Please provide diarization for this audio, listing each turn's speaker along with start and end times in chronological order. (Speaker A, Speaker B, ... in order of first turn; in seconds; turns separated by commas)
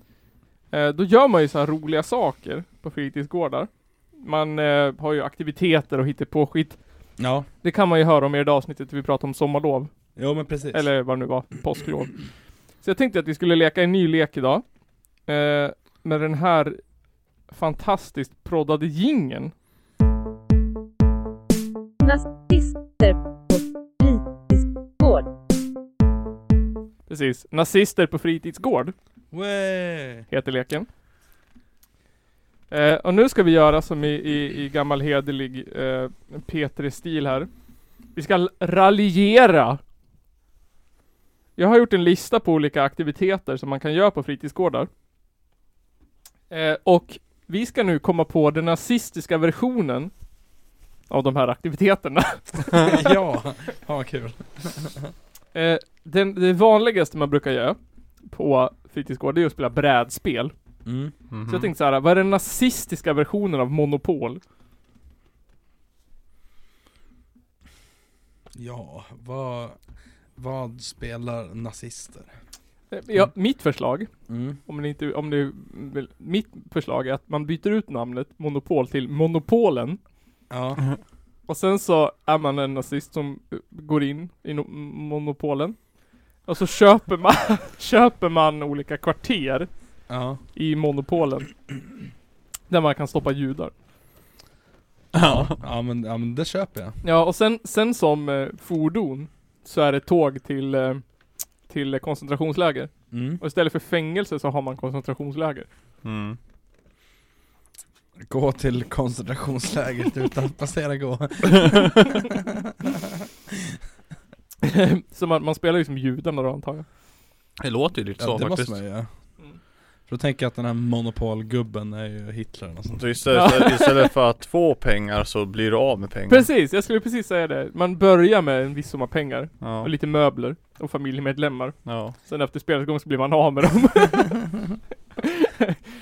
Speaker A: 0.7-6.8, Speaker B: 7.2-7.5, Speaker A: 7.6-9.9, Speaker B: 10.2-10.8, Speaker A: 10.7-12.2, Speaker A: 12.8-14.6, Speaker A: 15.3-16.8, Speaker A: 17.5-19.5, Speaker C: 22.0-25.3, Speaker A: 27.1-28.9, Speaker B: 29.3-30.3, Speaker A: 30.3-30.9, Speaker A: 32.7-37.5, Speaker A: 38.1-39.8, Speaker A: 41.6-44.9, Speaker A: 46.5-50.1, Speaker A: 51.1-53.0, Speaker B: 52.8-55.1, Speaker A: 55.5-60.5, Speaker B: 60.9-61.1, Speaker D: 61.3-61.7, Speaker A: 61.5-64.4, Speaker B: 68.5-69.8, Speaker B: 70.4-72.3, Speaker A: 72.9-74.1, Speaker B: 74.3-74.6, Speaker A: 74.7-80.0, Speaker B: 80.5-80.8, Speaker A: 81.5-85.8, Speaker A: 86.5-89.7, Speaker B: 90.1-90.4, Speaker A: 90.5-91.5, Speaker A: 92.7-93.7, Speaker D: 95.2-95.5, Speaker B: 95.2-97.0, Speaker A: 97.0-101.0, Speaker A: 101.7-105.7, Speaker B: 103.1-103.4, Speaker D: 106.0-106.4, Speaker B: 108.2-113.2, Speaker A: 114.6-116.8, Speaker D: 117.6-118.8, Speaker B: 118.2-119.1, Speaker B: 120.1-123.1, Speaker D: 123.0-126.5, Speaker A: 123.3-124.0, Speaker A: 126.3-134.4, Speaker D: 129.6-129.9, Speaker D: 131.9-132.2, Speaker A: 135.2-135.8